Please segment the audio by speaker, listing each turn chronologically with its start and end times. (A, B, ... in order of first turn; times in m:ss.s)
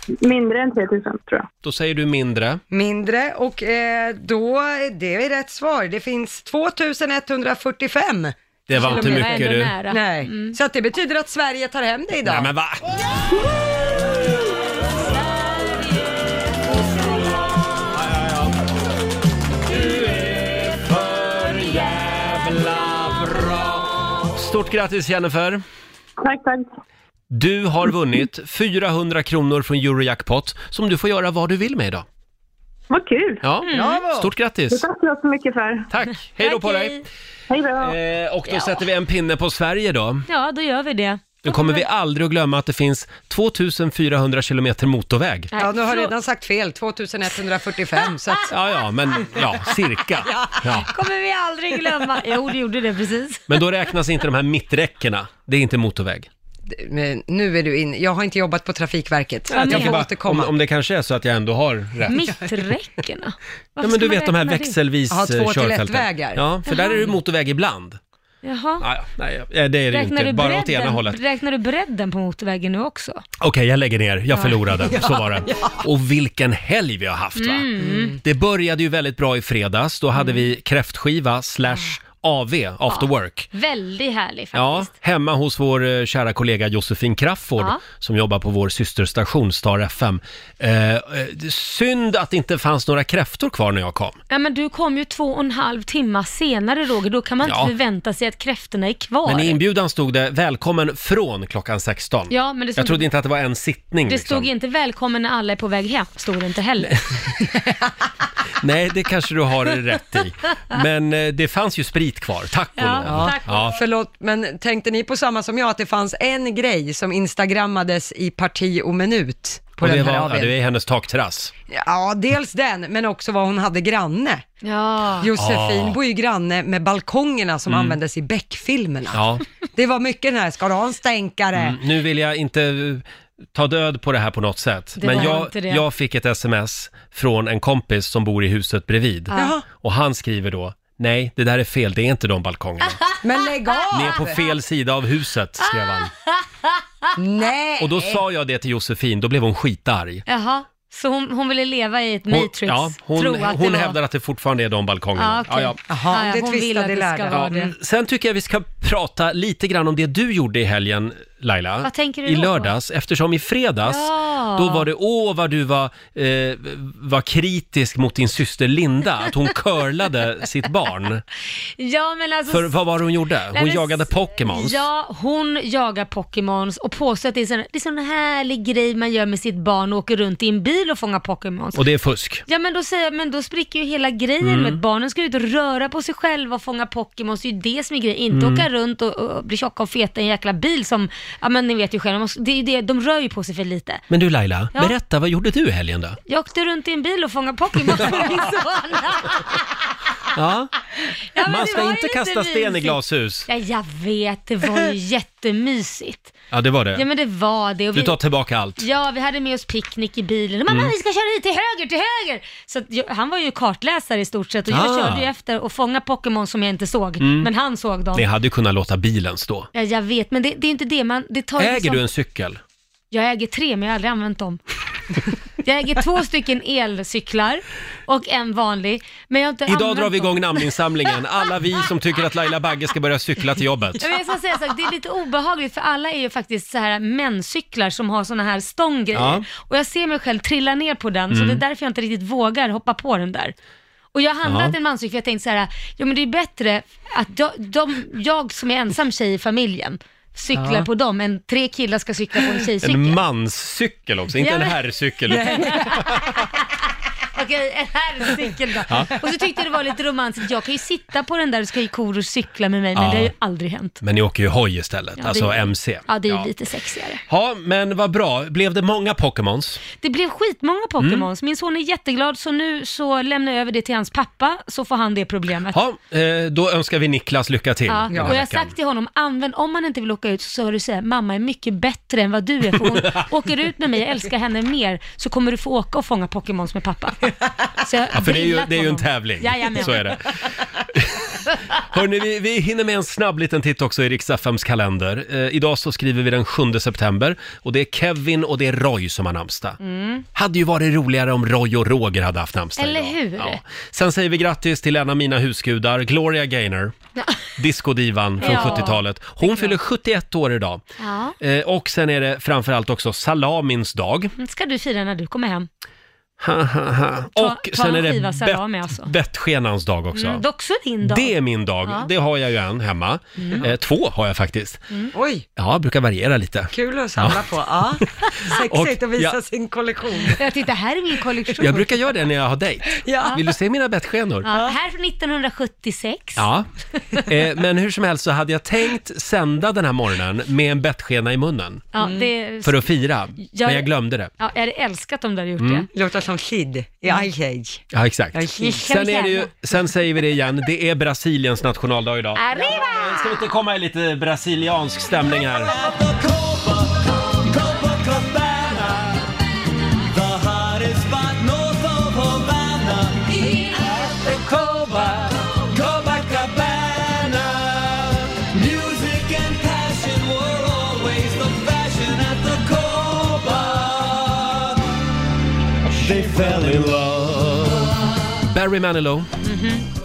0:00.2-0:01.5 A
0:01.6-0:02.6 B
0:02.7-0:12.5 C
0:08.7-0:09.7 B
0:08.8-0:10.6 D
0:12.2-0:13.0 B
0:17.9-0:18.5 B
0:19.7-0:25.6 B
0:26.2-0:26.6 A
0:27.3-0:32.0 B
0:32.9-0:33.4 A
0:33.4-0:34.8 B
0:33.6-0:34.0 D
0:33.7-0:34.3 C
0:34.7-0:35.9 A
0:35.9-0:37.0 B
0:36.4-0:37.0 D
0:37.5-0:37.9 A
0:37.8-0:40.3 B
0:38.5-0:38.7 D
0:40.3-0:41.8 D
0:41.4-0:45.5 B
0:45.5-0:46.1 D
0:45.6-0:48.5 C
0:48.5-0:50.9 B
0:50.3-0:50.6 C
0:50.9-0:53.6 D
0:53.5-0:56.3 B
0:56.7-1:00.5 C
0:59.5-1:02.1 B
0:59.5-1:00.0 D
1:02.1-1:04.8 D
1:03.8-1:08.0 B
1:05.1-1:06.4 C
1:06.7-1:07.1 D
1:08.4-1:08.8 D
1:08.8-1:11.2 B
1:09.9-1:13.2 D
1:13.4-1:17.7 B
1:14.3-1:14.6 D
1:14.8-1:15.8 C
1:17.4-1:18.2 D
1:17.8-1:18.2 C
1:18.2-1:23.5 B
1:20.2-1:20.4 D
1:22.9-1:24.9 D
1:24.5-1:34.2 B
1:34.3-1:39.6 D
1:37.4-1:37.7 B
1:39.2-1:44.5 B
1:42.3-1:43.1 D
1:44.1-1:47.1 D
1:48.6-1:53.8 B
1:52.8-1:53.8 D
1:53.0-2:00.5 C
1:59.8-2:01.5 B
2:01.7-2:04.4 C
2:04.6-2:05.3 D
2:05.2-2:09.2 C
2:05.4-2:06.0 B
2:07.7-2:08.0 B
2:09.1-2:09.4 B
2:09.7-2:11.8 C
2:11.6-2:23.0 B
2:15.0-2:15.8 D
2:15.1-2:15.4 C
2:19.3-2:19.6 C
2:23.2-2:24.4 C
2:23.9-2:26.1 B
2:25.6-2:27.1 D
2:27.2-2:28.2 C
2:27.8-2:30.2 B
2:30.3-2:34.0 D
2:32.3-2:35.8 B
2:35.2-2:37.7 D
2:35.9-2:37.7 C
2:37.3-2:51.2 B
2:41.8-2:42.7 D
2:43.8-2:44.9 D
2:51.8-2:52.8 D
2:52.5-2:54.8 B
2:53.5-3:01.8 D
3:01.7-3:02.4 B
3:02.5-3:14.0 D
3:04.4-3:04.8 B
3:08.3-3:08.6 B
3:14.1-3:16.2 B
3:16.3-3:19.7 D
3:18.0-3:18.4 B
3:20.3-3:20.7 B
3:21.3-3:26.3 D
3:21.4-3:23.5 B
3:26.5-3:27.0 B
3:26.9-3:28.2 D
3:27.9-3:28.8 B
3:28.8-3:38.2 D
3:34.7-3:35.3 B
3:37.2-3:37.5 B
3:38.1-3:39.7 B
3:39.7-3:42.0 D
3:41.6-3:42.6 B
3:43.1-3:44.6 D
3:45.6-3:50.7 D
3:49.7-3:54.0 B
3:54.0-4:03.5 D
3:59.1-3:59.4 B
4:01.3-4:01.6 B
4:04.1-4:13.2 D
4:04.4-4:04.7 B
4:10.5-4:10.8 C
4:12.8-4:16.2 B
4:14.4-4:16.5 D
4:15.3-4:16.0 C
4:17.3-4:24.0 D
4:18.9-4:19.1 B
4:22.9-4:23.3 B
4:24.0-4:26.5 B
4:25.2-4:27.2 D
4:27.3-4:29.8 B
4:30.0-4:35.8 D
4:31.0-4:31.2 B
4:35.7-4:38.7 B
4:37.9-4:50.2 D
4:42.8-4:43.2 B
4:48.1-4:59.8 B
4:59.8-5:00.2 D
5:00.3-5:06.9 B
5:02.8-5:03.6 D
5:07.6-5:10.8 B
5:08.4-5:09.7 D
5:11.0-5:11.4 D
5:11.4-5:14.3 B
5:14.4-5:15.7 D
5:16.4-5:20.4 B
5:17.4-5:19.1 D
5:20.1-5:22.1 D
5:21.0-5:24.8 B
5:23.4-5:23.6 D
5:25.1-5:25.4 C
5:25.6-5:27.4 B
5:26.7-5:30.4 C
5:28.0-5:29.4 B
5:30.3-5:32.0 D
5:31.6-5:34.5 B
5:33.0-5:33.4 C
5:34.4-5:36.5 D
5:34.5-5:34.7 C
5:36.4-5:41.9 B
5:41.9-5:43.9 D
5:42.0-5:42.3 C
5:42.6-5:44.3 B
5:44.4-5:45.9 D
5:45.6-5:45.8 B
5:45.9-5:48.8 C
5:47.9-5:55.7 B
5:48.6-5:49.5 D
5:52.4-5:53.5 D
5:55.5-5:59.2 E
6:00.1-6:14.7 E
6:15.9-6:17.2 E
6:16.0-6:17.9 B
6:18.4-6:19.3 B
6:19.4-6:19.8 D